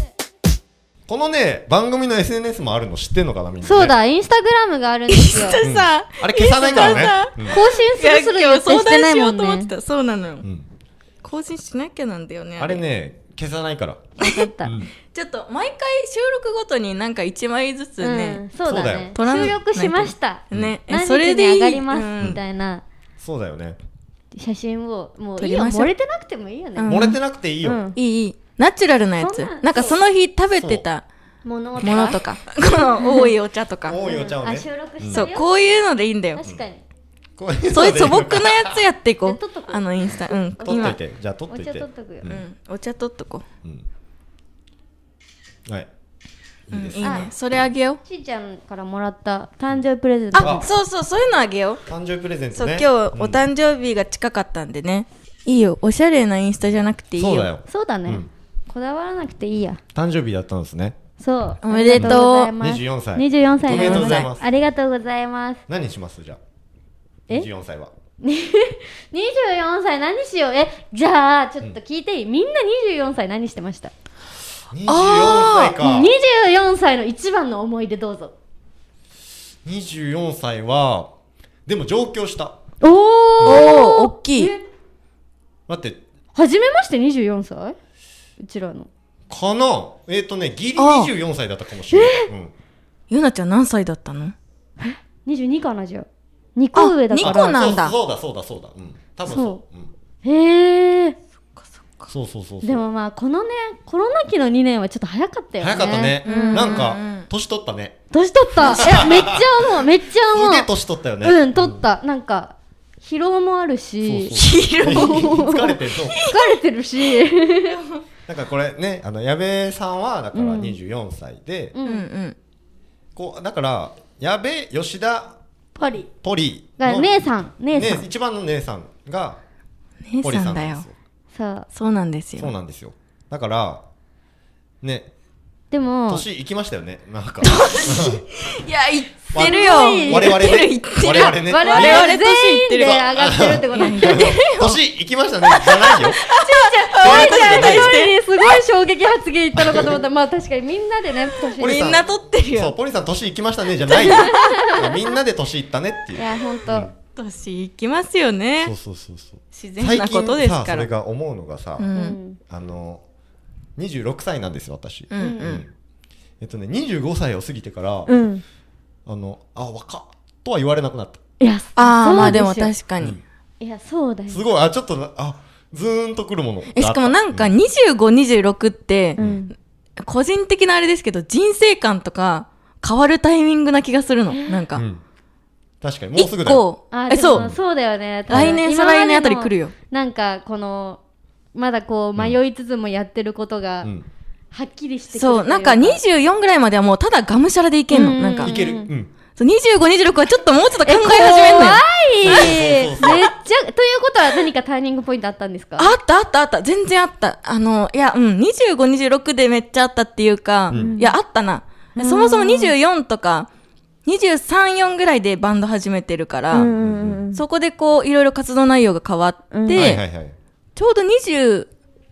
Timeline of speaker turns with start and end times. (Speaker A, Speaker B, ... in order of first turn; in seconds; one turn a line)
Speaker A: 1.1-4.0
Speaker B: 3.6-5.6
Speaker C: 5.1-10.5
Speaker A: 5.6-7.6
Speaker B: 6.7-9.7
Speaker C: 11.2-12.8
Speaker A: 12.6-14.0
Speaker B: 14.2-14.8
Speaker C: 14.2-14.5
Speaker A: 14.6-14.9
Speaker C: 15.1-18.4
Speaker B: 18.0-22.8
Speaker A: 18.6-19.6
Speaker C: 19.2-22.4
Speaker A: 23.2-23.8
Speaker B: 24.3-27.0
Speaker C: 25.4-25.9
Speaker C: 26.8-27.2
Speaker A: 26.9-27.8
Speaker B: 27.6-28.0
Speaker C: 27.9-31.0
Speaker B: 29.2-30.0
Speaker A: 30.6-30.9
Speaker B: 31.4-32.2
Speaker C: 31.8-34.0
Speaker B: 33.0-33.3
Speaker A: 33.9-35.3
Speaker B: 34.0-35.5
Speaker C: 35.1-36.4
Speaker B: 36.4-36.8
Speaker A: 37.4-38.8
Speaker C: 37.7-41.0
Speaker B: 39.2-40.9
Speaker A: 40.6-42.4
Speaker B: 41.5-42.3
Speaker C: 42.3-43.5
Speaker A: 46.7-47.3
Speaker C: 46.7-48.0
Speaker B: 47.0-47.3
Speaker B: 48.0-50.7
Speaker C: 50.3-51.8
Speaker A: 50.4-50.7
Speaker A: 51.9-53.4
Speaker C: 52.5-57.5
Speaker A: 57.2-58.3
Speaker B: 57.7-59.8
Speaker A: 60.0-61.0
Speaker B: 61.2-65.6
Speaker C: 61.6-62.5
Speaker A: 62.0-64.5
Speaker C: 63.7-64.3
Speaker A: 65.7-66.4
Speaker A: 67.3-67.9
Speaker B: 68.2-73.9
Speaker A: 74.7-76.1
Speaker C: 74.9-75.8
Speaker B: 75.8-78.3
Speaker A: 79.7-81.1
Speaker A: 81.7-82.6
Speaker B: 82.8-84.6
Speaker C: 83.4-84.5
Speaker A: 85.7-86.0
Speaker B: 86.3-87.8
Speaker B: 88.4-88.9
Speaker A: 89.3-92.5
Speaker C: 90.8-91.1
Speaker B: 91.9-92.3
Speaker C: 93.1-94.3
Speaker B: 94.8-97.8
Speaker C: 96.8-98.0
Speaker A: 97.2-99.9
Speaker B: 99.3-99.6
Speaker B: 100.2-101.2
Speaker A: 102.1-102.8
Speaker B: 102.6-106.9
Speaker A: 105.6-108.0
Speaker C: 106.2-107.3
Speaker B: 108.1-110.7
Speaker C: 108.6-108.9
Speaker A: 108.6-109.6
Speaker A: 110.3-111.8
Speaker B: 111.2-117.8
Speaker A: 114.0-116.2
Speaker C: 114.3-116.6
Speaker C: 117.7-118.0
Speaker A: 118.3-121.7
Speaker B: 120.3-120.8
Speaker B: 121.7-122.1
Speaker C: 121.9-122.4
Speaker A: 123.2-125.4
Speaker B: 125.8-126.1
Speaker A: 126.2-127.2
Speaker B: 126.8-128.1
Speaker A: 127.7-129.4
Speaker C: 130.1-130.8
Speaker A: 130.2-130.9
Speaker B: 131.3-131.7
Speaker C: 131.7-132.5
Speaker A: 132.4-133.8
Speaker A: 134.8-135.1
Speaker B: 135.7-136.3
Speaker A: 136.1-138.2
Speaker C: 137.4-143.0
Speaker B: 139.3-140.6
Speaker A: 139.3-142.1
Speaker B: 141.5-144.4
Speaker A: 142.8-146.2
Speaker C: 143.7-144.8
Speaker C: 145.5-148.2
Speaker B: 146.2-152.0
Speaker A: 147.0-148.0
Speaker A: 149.6-150.0
Speaker C: 151.4-152.8
Speaker A: 151.6-156.9
Speaker C: 153.9-154.9
Speaker B: 154.0-154.9
Speaker B: 156.2-156.9
Speaker C: 157.2-158.7
Speaker A: 158.6-161.9
Speaker C: 159.5-160.9
Speaker C: 161.8-162.2
Speaker B: 162.0-162.4
Speaker A: 162.5-163.0
Speaker A: 163.8-165.7
Speaker C: 165.1-165.6
Speaker B: 165.2-165.6
Speaker A: 166.4-168.1
Speaker B: 168.1-168.4
Speaker A: 169.1-171.2
Speaker B: 171.4-172.7
Speaker C: 171.8-173.2
Speaker B: 173.6-174.4
Speaker A: 174.3-177.6
Speaker C: 176.7-179.2
Speaker B: 179.2-179.5
Speaker A: 179.2-179.4
Speaker C: 180.0-184.8
Speaker B: 184.3-184.7
Speaker A: 184.8-185.0
Speaker A: 185.8-186.7
Speaker C: 186.2-187.5
Speaker B: 186.9-191.0
Speaker C: 188.3-189.7
Speaker A: 188.3-188.6
Speaker B: 191.6-193.9
Speaker A: 193.8-194.1
Speaker B: 194.5-196.0
Speaker C: 195.1-198.6
Speaker B: 197.9-198.9
Speaker A: 198.4-199.1
Speaker C: 199.4-203.2
Speaker B: 200.8-205.9
Speaker A: 202.2-203.3
Speaker C: 205.8-213.5
Speaker A: 210.7-211.0
Speaker B: 210.7-211.2
Speaker B: 212.0-212.7
Speaker C: 214.1-216.7
Speaker B: 216.5-217.4
Speaker A: 216.7-217.2
Speaker C: 217.3-220.0
Speaker B: 219.5-219.9
Speaker A: 219.7-220.3
Speaker C: 220.8-221.7